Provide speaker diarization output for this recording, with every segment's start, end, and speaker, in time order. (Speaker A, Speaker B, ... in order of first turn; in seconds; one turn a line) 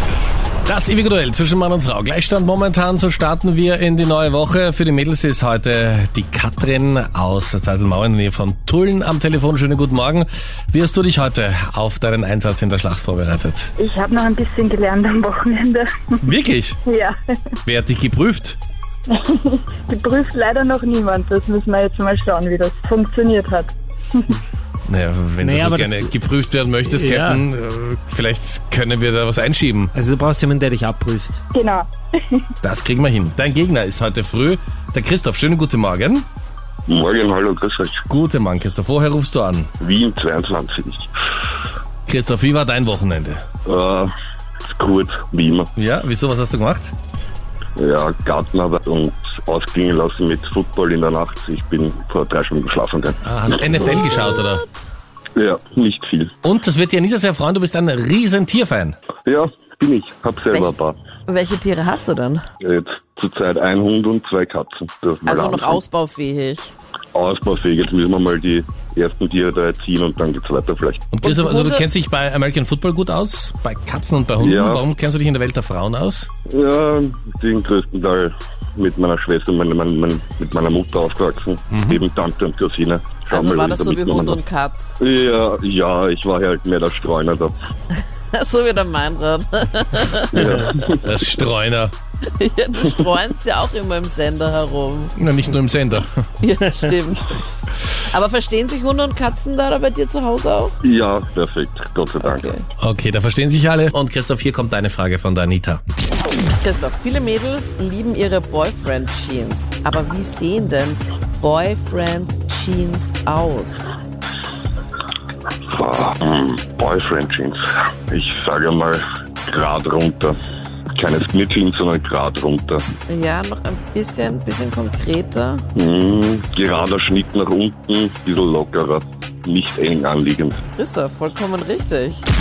Speaker A: 0.7-13.7
Speaker B: 13.8-15.9
Speaker A: 16.2-16.8
Speaker B: 16.9-17.1
Speaker A: 17.7-18.6
Speaker B: 19.1-24.4
Speaker A: 24.9-29.9
Speaker C: 25.4-26.1
Speaker C: 26.9-27.4
Speaker C: 29.9-31.4
Speaker B: 31.5-31.9
Speaker A: 32.6-36.3
Speaker D: 36.9-38.0
Speaker A: 38.1-39.7
Speaker D: 39.8-41.1
Speaker A: 42.1-43.4
Speaker D: 43.7-44.1
Speaker D: 44.7-45.7
Speaker A: 45.8-46.9
Speaker D: 47.8-53.7
Speaker A: 53.2-54.6
Speaker E: 53.7-54.6
Speaker D: 55.4-56.3
Speaker A: 56.4-59.0
Speaker D: 59.3-61.0
Speaker E: 61.3-62.5
Speaker D: 62.6-65.8
Speaker E: 65.3-66.7
Speaker D: 67.1-71.0
Speaker A: 71.1-76.3
Speaker E: 71.2-71.9
Speaker D: 74.4-74.8
Speaker D: 76.5-84.4
Speaker A: 81.7-82.0
Speaker E: 83.3-84.9
Speaker D: 85.0-87.5
Speaker E: 87.9-90.7
Speaker D: 90.3-91.0
Speaker A: 91.0-91.9
Speaker E: 92.2-95.1
Speaker A: 95.2-96.2
Speaker E: 96.4-97.4
Speaker E: 98.1-100.8
Speaker D: 100.8-102.5
Speaker E: 102.2-102.7
Speaker A: 102.8-105.8
Speaker E: 106.6-114.0
Speaker D: 115.7-120.4
Speaker D: 121.0-122.8
Speaker E: 123.1-125.6
Speaker D: 125.8-130.6
Speaker E: 130.8-132.2